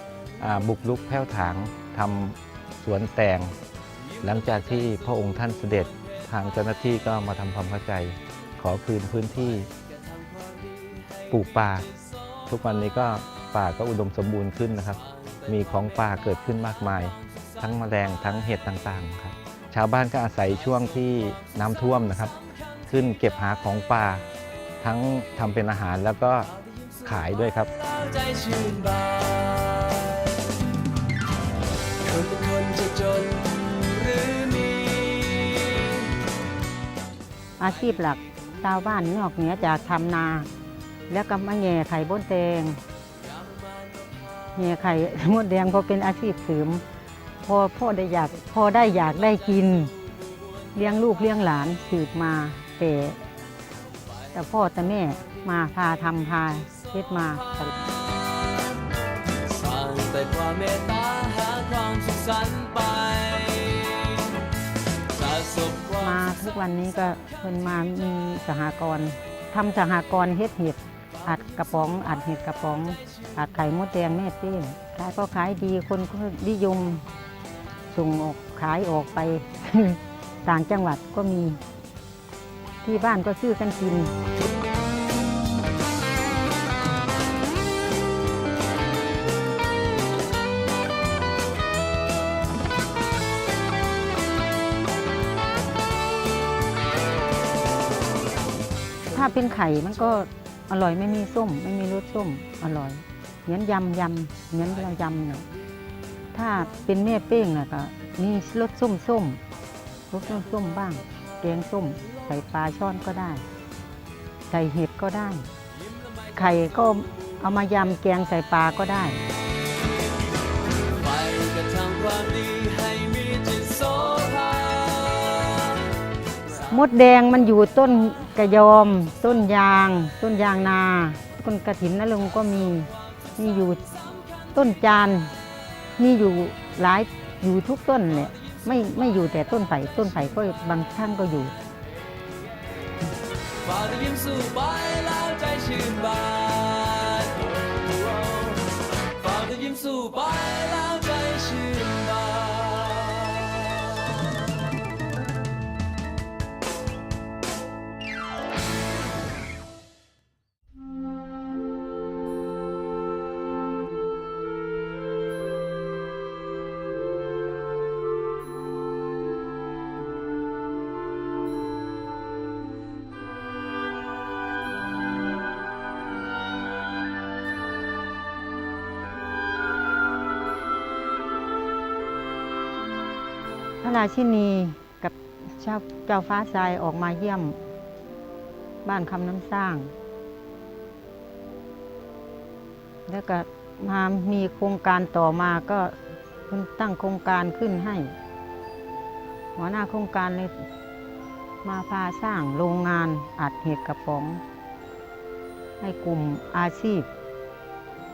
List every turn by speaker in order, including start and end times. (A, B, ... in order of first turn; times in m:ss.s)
0:00.4-0:03.6 A
0:04.2-0:06.1 B
0:04.2-0:09.7 A
0:09.7-0:11.9 B
0:11.3-0:11.9 A
0:12.5-0:22.3 A
0:22.9-0:24.2 A
0:24.8-0:26.5 A
0:27.0-0:27.7 A
0:27.0-0:30.4 B
0:32.1-0:36.1 B
0:37.6-0:40.5 C
0:41.1-0:42.8 C
0:43.3-0:44.0 B
0:44.6-0:46.8 C
0:47.4-0:49.9 C
0:50.8-0:53.2 C
0:54.3-0:57.7 C
0:57.8-0:58.8 B
0:59.4-1:04.4 B
1:05.1-1:06.2 B
1:06.0-1:17.0 C
1:17.9-1:21.6 C
1:22.8-1:24.1 C
1:39.1-1:45.4 C
1:46.3-1:49.4 C
1:50.1-1:53.4 C
1:54.5-1:55.5 C
1:56.3-1:59.2 C
2:01.0-2:05.9 B
2:06.7-2:13.8 C
2:14.5-2:15.3 C
2:16.0-2:21.5 C
2:23.6-2:34.1 B
3:03.8-3:07.6 C
3:08.8-3:09.9 C
3:13.1-3:15.9 C
3:16.5-3:18.1 C
3:19.6-3:20.6 C
3:21.6-3:24.4 C
3:25.8-3:27.1 C